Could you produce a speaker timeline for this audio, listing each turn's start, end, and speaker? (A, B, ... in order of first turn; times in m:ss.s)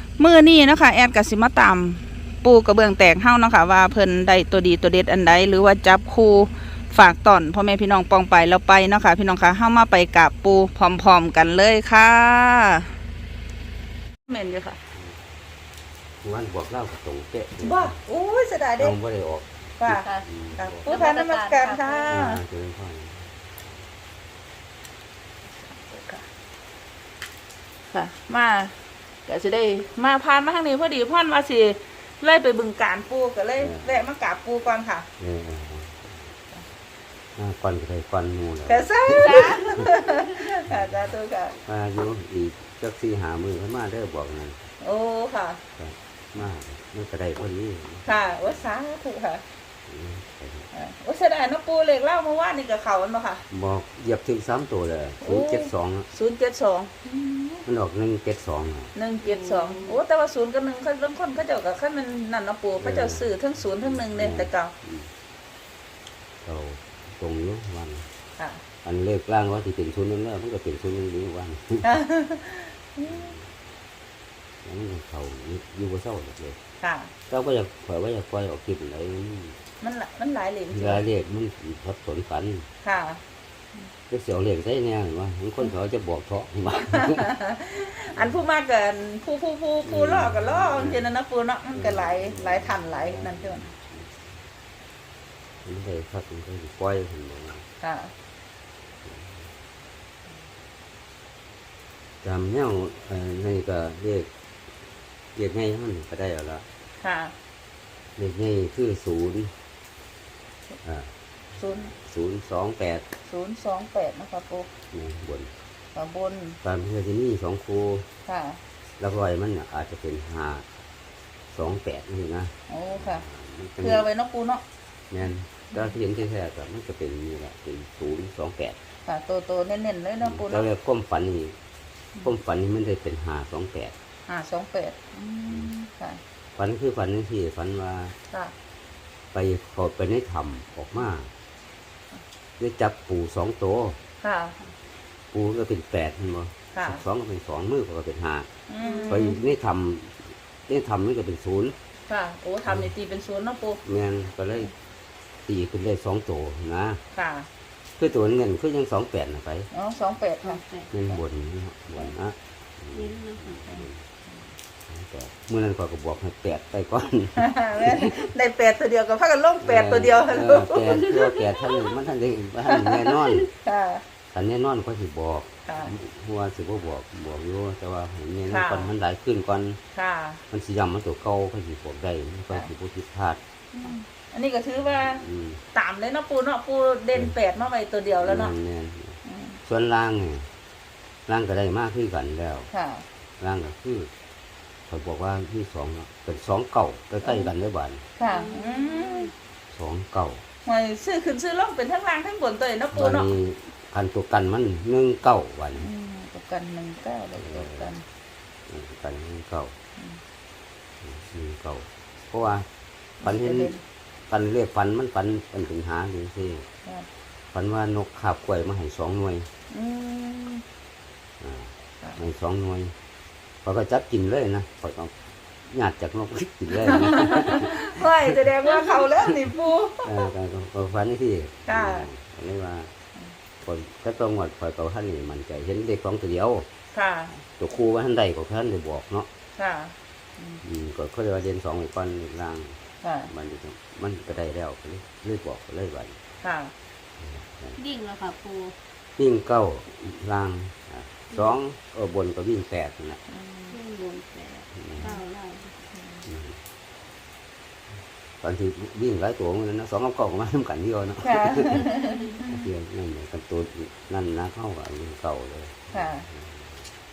0:00.2-0:13.0 A
0:14.3-0:14.8 A
0:16.2-0:18.0 B
0:17.6-0:18.9 A
0:18.8-0:19.6 B
0:19.8-0:20.1 A
0:19.8-0:22.1 C
0:20.2-0:20.8 B
0:20.6-0:22.4 A
0:22.1-0:23.4 B
0:25.6-0:26.3 A
0:27.9-0:35.1 A
0:33.6-0:34.0 B
0:35.2-0:36.3 B
0:37.4-0:39.7 B
0:38.7-0:41.6 A
0:41.6-0:44.6 B
0:44.8-0:45.6 A
0:45.8-0:48.6 B
0:48.1-0:49.4 A
0:49.9-0:50.7 B
0:50.7-0:53.4 A
0:53.5-0:56.1 B
0:55.2-0:57.6 A
0:57.7-0:58.9 B
0:58.9-1:04.7 A
0:59.2-1:00.0 C
1:02.8-1:03.3 B
1:03.8-1:05.1 B
1:06.4-1:08.1 B
1:08.8-1:11.9 B
1:11.8-1:13.3 A
1:13.1-1:13.5 B
1:14.6-1:16.6 B
1:16.8-1:17.1 A
1:17.3-1:19.6 B
1:19.8-1:21.0 A
1:20.7-1:22.7 B
1:22.8-1:23.2 A
1:24.1-1:27.3 B
1:26.9-1:33.7 A
1:28.1-1:28.4 B
1:29.8-1:31.1 B
1:31.8-1:34.2 B
1:35.6-1:37.6 B
1:37.8-1:38.1 A
1:39.1-1:39.3 B
1:42.2-1:44.3 B
1:45.4-1:46.7 B
1:47.0-1:47.3 A
1:48.2-1:49.6 B
1:50.8-1:51.1 B
1:51.5-1:51.9 A
1:51.8-1:53.1 B
1:53.2-1:54.7 A
1:54.9-1:55.5 B
1:56.0-1:56.6 A
1:56.6-1:58.1 B
1:58.3-1:58.6 A
1:59.0-2:00.7 B
2:01.5-2:04.1 B
2:02.7-2:03.2 A
2:03.8-2:04.6 A
2:05.1-2:08.8 B
2:09.0-2:10.7 A
2:10.2-2:11.6 B
2:12.2-2:13.9 B
2:14.3-2:16.2 A
2:16.6-2:18.2 B
2:19.3-2:21.3 B
2:22.6-2:24.0 B
2:24.2-2:24.6 A
2:25.3-2:28.5 B
2:26.7-2:27.0 A
2:28.7-2:29.4 A
2:28.8-2:29.3 C
2:29.1-2:31.8 B
2:32.1-2:33.8 A
2:33.8-2:34.7 B
2:35.5-2:37.0 B
2:37.1-2:37.5 A
2:38.0-2:39.7 B
2:39.7-2:40.6 A
2:40.4-2:41.2 C
2:40.9-2:44.0 B
2:42.9-2:43.9 C
2:44.9-2:48.2 B
2:47.4-2:51.0 A
2:49.6-2:53.5 B
2:51.0-2:51.9 C
2:52.7-2:53.1 A
2:53.6-2:54.0 A
2:54.3-2:59.8 B
2:55.7-2:55.9 A
2:58.5-2:58.9 A
2:59.9-3:00.4 A
3:00.5-3:03.4 B
3:03.7-3:08.5 A
3:05.0-3:05.6 B
3:08.2-3:10.5 B
3:09.3-3:09.6 A
3:11.3-3:12.7 B
3:12.7-3:13.0 A
3:13.4-3:14.1 B
3:14.9-3:18.0 B
3:18.2-3:19.3 A
3:18.3-3:19.3 C
3:19.7-3:20.4 B
3:20.6-3:23.3 A
3:22.9-3:25.9 B
3:25.8-3:28.0 A
3:27.4-3:27.9 B
3:28.7-3:29.7 B
3:31.0-3:32.7 B
3:33.2-3:33.8 B
3:33.2-3:33.8 A
3:34.3-3:36.7 B
3:37.5-3:39.5 B
3:39.7-3:40.6 A
3:41.4-3:42.9 B
3:43.6-3:48.1 B
3:46.8-3:50.2 A
3:50.0-3:52.9 B
3:51.7-3:52.1 A
3:53.6-3:56.7 B
3:56.9-3:57.3 A
3:57.5-3:59.3 B
3:59.6-4:00.6 A
4:00.6-4:02.8 B
4:03.0-4:03.3 A
4:03.3-4:06.2 B
4:06.4-4:06.7 A
4:07.2-4:07.8 B
4:07.8-4:08.8 C
4:09.2-4:13.2 B
4:13.4-4:13.7 A
4:13.7-4:15.8 C
4:14.8-4:15.1 B
4:16.2-4:16.6 B
4:18.4-4:21.9 B
4:21.2-4:22.5 A
4:22.4-4:26.9 B
4:25.9-4:26.3 A